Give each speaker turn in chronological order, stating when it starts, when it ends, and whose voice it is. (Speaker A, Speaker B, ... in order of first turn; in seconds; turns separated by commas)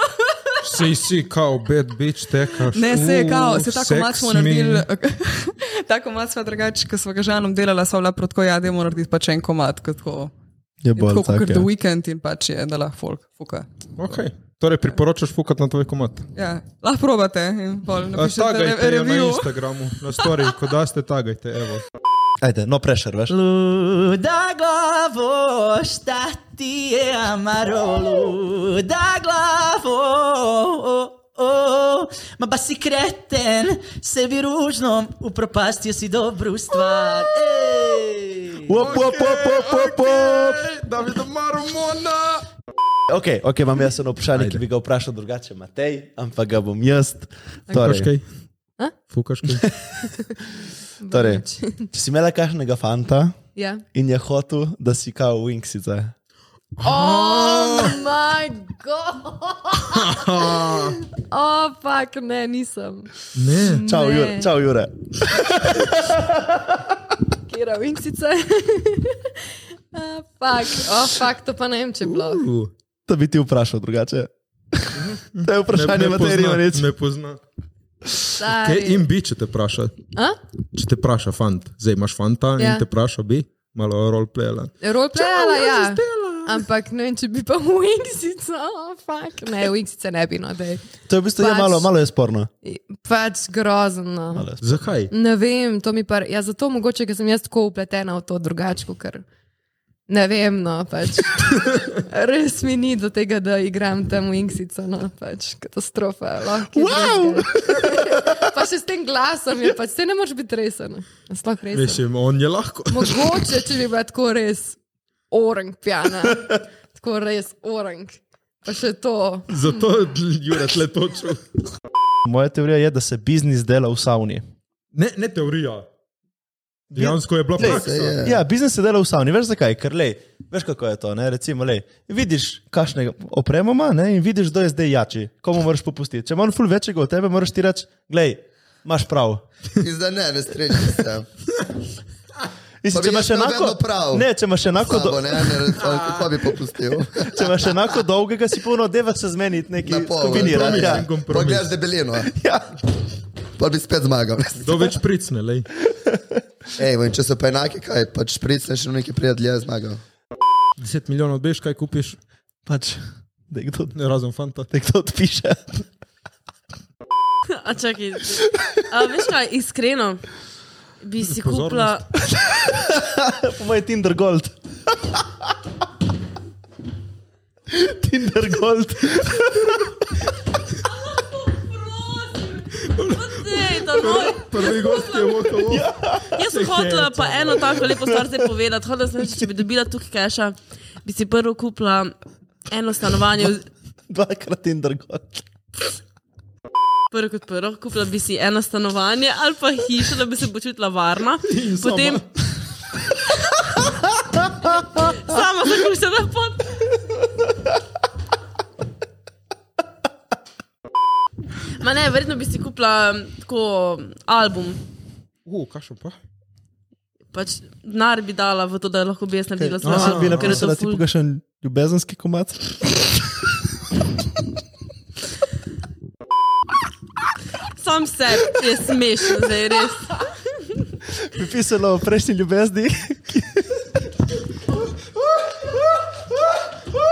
Speaker A: 0.6-4.9, Speaker B: 2.7-10.3, Speaker C: 10.8-11.7, Speaker B: 11.0-13.7, Speaker A: 14.0-16.3, Speaker B: 16.4-19.5, Speaker A: 18.1-21.8, Speaker C: 22.4-23.3, Speaker D: 23.3-38.7, Speaker C: 38.6-40.6, Speaker A: 38.8-42.5, Speaker C: 43.1-48.1, Speaker A: 47.7-48.2, Speaker A: 49.1-49.7, Speaker E: 51.0-51.9, Speaker C: 51.1-53.4, Speaker E: 53.5-53.8, Speaker C: 53.9-56.1, Speaker A: 56.8-57.9, Speaker E: 56.8-64.5, Speaker A: 60.0-60.9, Speaker A: 63.3-63.9, Speaker C: 63.8-66.5, Speaker E: 67.5-69.3, Speaker E: 69.9-72.4, Speaker A: 72.0-72.7, Speaker C: 73.1-76.9, Speaker A: 75.0-77.4, Speaker E: 78.3-79.1, Speaker A: 78.5-80.0, Speaker A: 80.7-85.8, Speaker E: 82.6-82.8, Speaker E: 84.8-90.8, Speaker C: 91.1-92.5, Speaker E: 91.3-91.9, Speaker E: 92.6-94.5, Speaker C: 94.3-94.6, Speaker A: 94.6-95.1, Speaker E: 95.1-99.2, Speaker E: 100.1-101.5, Speaker E: 102.1-112.0, Speaker C: 106.7-107.9, Speaker A: 111.7-113.5, Speaker E: 112.9-114.8, Speaker E: 115.3-119.8, Speaker A: 119.5-121.4, Speaker C: 122.2-124.4, Speaker A: 124.9-125.9, Speaker A: 126.9-128.2, Speaker C: 127.0-139.4, Speaker F: 127.6-128.4, Speaker F: 139.8-141.3, Speaker C: 142.8-145.8, Speaker F: 142.9-147.7, Speaker C: 147.2-151.1, Speaker F: 149.8-152.3, Speaker A: 150.3-151.8, Speaker C: 152.2-152.7, Speaker F: 153.6-154.9, Speaker A: 154.6-155.7, Speaker F: 156.8-160.0, Speaker A: 160.8-162.2, Speaker C: 162.7-163.9, Speaker A: 163.9-164.7, Speaker C: 164.7-165.7, Speaker G: 167.5-170.2, Speaker G: 171.0-172.0, Speaker A: 171.2-171.9, Speaker C: 172.5-175.2, Speaker C: 177.7-179.9, Speaker A: 182.8-187.9, Speaker G: 183.2-185.3, Speaker C: 185.5-186.4, Speaker G: 186.3-192.1, Speaker G: 192.7-193.7, Speaker C: 194.1-195.4, Speaker G: 197.1-202.2, Speaker A: 201.4-202.2, Speaker G: 204.7-206.9, Speaker G: 211.8-214.8, Speaker A: 215.4-216.2, Speaker G: 217.3-221.0, Speaker C: 219.6-222.8, Speaker A: 219.8-220.6, Speaker G: 227.8-230.1, Speaker C: 231.3-233.8